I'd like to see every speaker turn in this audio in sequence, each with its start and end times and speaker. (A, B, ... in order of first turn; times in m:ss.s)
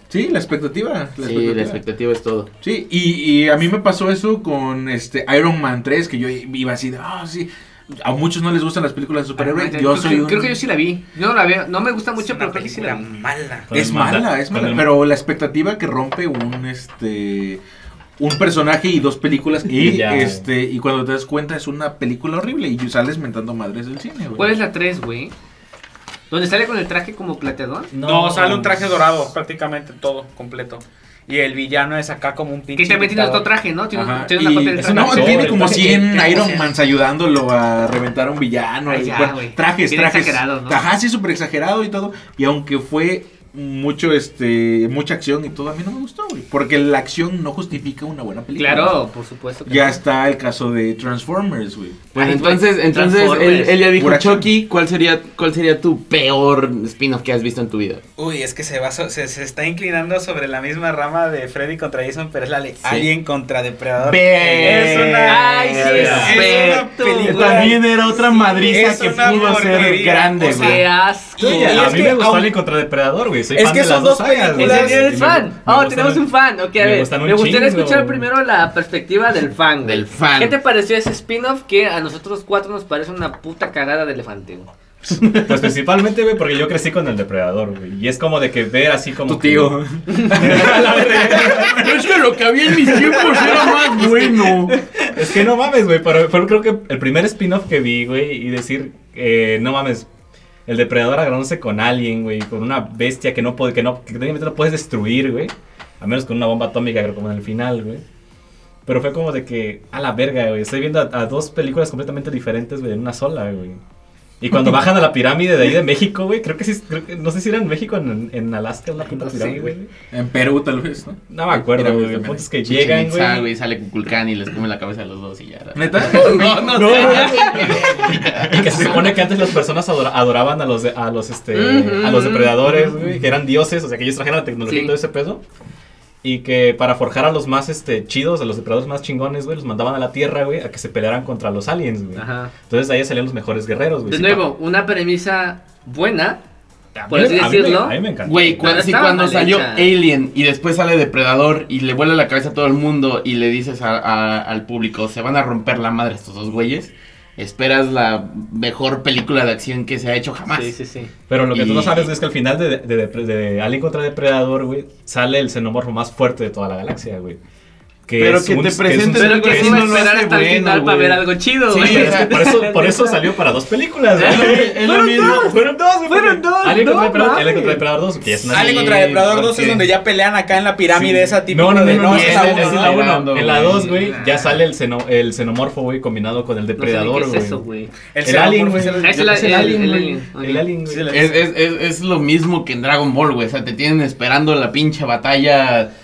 0:00.1-0:01.8 A
0:01.2-0:02.5 B
0:02.6-0:10.6 A
0:09.4-0:13.0 C
0:12.2-0:13.7 D
0:13.7-0:15.0 E
0:13.7-0:17.6 A
0:18.2-0:24.5 A
0:19.7-0:20.4 E
0:24.4-0:25.3 C
0:26.3-0:27.9 C
0:27.9-0:28.8 E
0:28.0-0:33.5 D
0:32.8-0:36.7 C
0:33.9-0:49.0 A
0:34.8-0:36.1 E
0:36.1-0:36.4 D
0:38.9-0:40.8 C
0:48.6-0:50.0 C
0:49.7-0:52.0 A
0:52.1-0:53.8 C
0:52.1-0:58.0 B
0:54.0-0:54.5 A
0:58.2-1:07.9 D
1:02.8-1:03.1 B
1:04.0-1:10.8 B
1:04.5-1:05.1 A
1:04.7-1:09.6 C
1:05.8-1:06.4 E
1:08.6-1:10.9 D
1:10.4-1:12.2 C
1:11.4-1:12.5 D
1:11.4-1:18.3 E
1:13.5-1:15.1 D
1:14.6-1:24.7 C
1:19.8-1:20.6 B
1:25.1-1:25.7 B
1:25.4-1:32.0 E
1:29.3-1:32.0 A
1:31.3-1:34.8 B
1:32.8-1:34.2 A
1:35.1-1:40.1 E
1:40.7-1:48.0 E
1:48.9-1:53.8 E
1:54.4-1:59.9 E
1:59.2-1:59.7 C
2:00.1-2:02.4 A
2:01.3-2:03.5 E
2:02.6-2:09.2 B
2:05.8-2:09.0 A
2:06.2-2:15.4 E
2:06.4-2:07.7 C
2:11.5-2:12.8 C
2:14.7-2:14.9 C
2:16.2-2:24.5 E
2:22.2-2:22.5 C
2:24.1-2:26.4 C
2:27.0-2:28.8 E
2:27.1-2:28.0 C
2:28.2-2:40.7 B
2:28.6-2:29.9 C
2:40.5-2:41.1 C
2:41.3-2:47.4 E
2:41.5-2:42.1 B
2:48.1-2:50.0 E
2:48.2-2:52.4 B
2:49.2-2:53.3 C
2:51.7-2:59.9 E
2:54.2-2:55.5 B
2:54.2-2:57.8 C
2:58.5-3:03.0 D
2:58.5-2:59.0 B
3:01.0-3:07.6 E
3:01.8-3:03.9 B
3:03.8-3:04.6 D
3:06.8-3:07.9 C
3:08.1-3:09.8 D
3:08.2-3:11.2 E
3:09.0-3:10.7 C
3:10.8-3:11.4 D
3:11.1-3:15.9 B